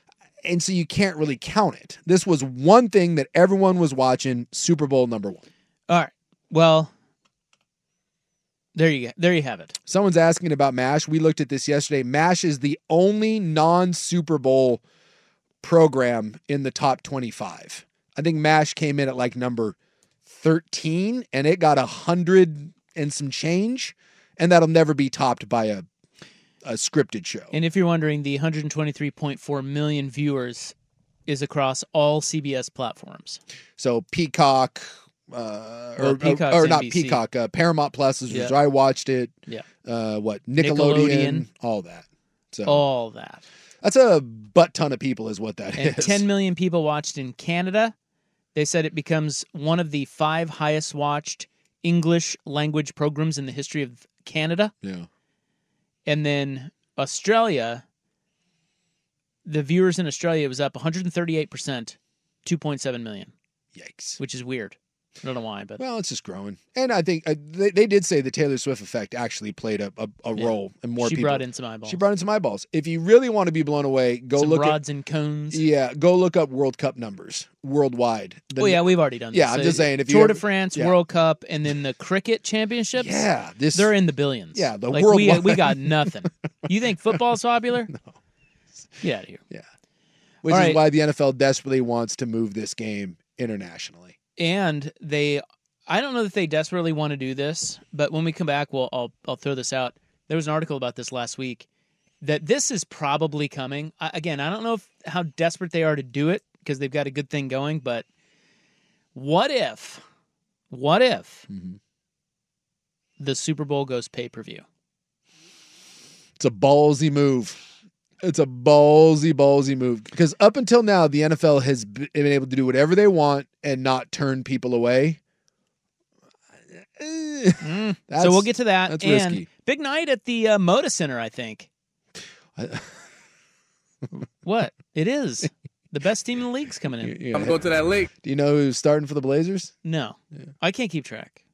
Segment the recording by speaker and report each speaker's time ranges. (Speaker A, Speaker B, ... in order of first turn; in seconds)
Speaker A: 0.4-5.4, 9.9-14.8, 15.6-25.9, 26.6-27.5, 33.8-39.3, 39.9-42.9, 43.8-46.3, 54.8-55.1, 63.8-64.2, 65.8-74.8, 75.5-80.9, 83.0-83.9, 84.5-86.3, 90.4-94.2, 111.5-111.8, 116.4-117.6, 118.2-125.2, 126.8-129.5, 132.6-132.9, 137.0-139.7
Speaker B: 5.9-6.9, 8.8-9.8, 27.5-30.7, 31.3-33.4, 36.0-37.2, 38.3-38.5, 40.6-41.5, 42.6-43.4, 45.8-47.9, 48.5-54.7, 56.1-57.8, 59.5-63.3, 64.2-65.8, 70.4-72.0, 74.4-75.6, 78.6-87.9, 89.0-89.4, 90.5-90.8, 94.4-101.7, 102.2-108.1, 109.2-110.0, 110.7-111.5, 113.2-114.7, 127.6-131.7, 134.1-137.4, 139.8-141.4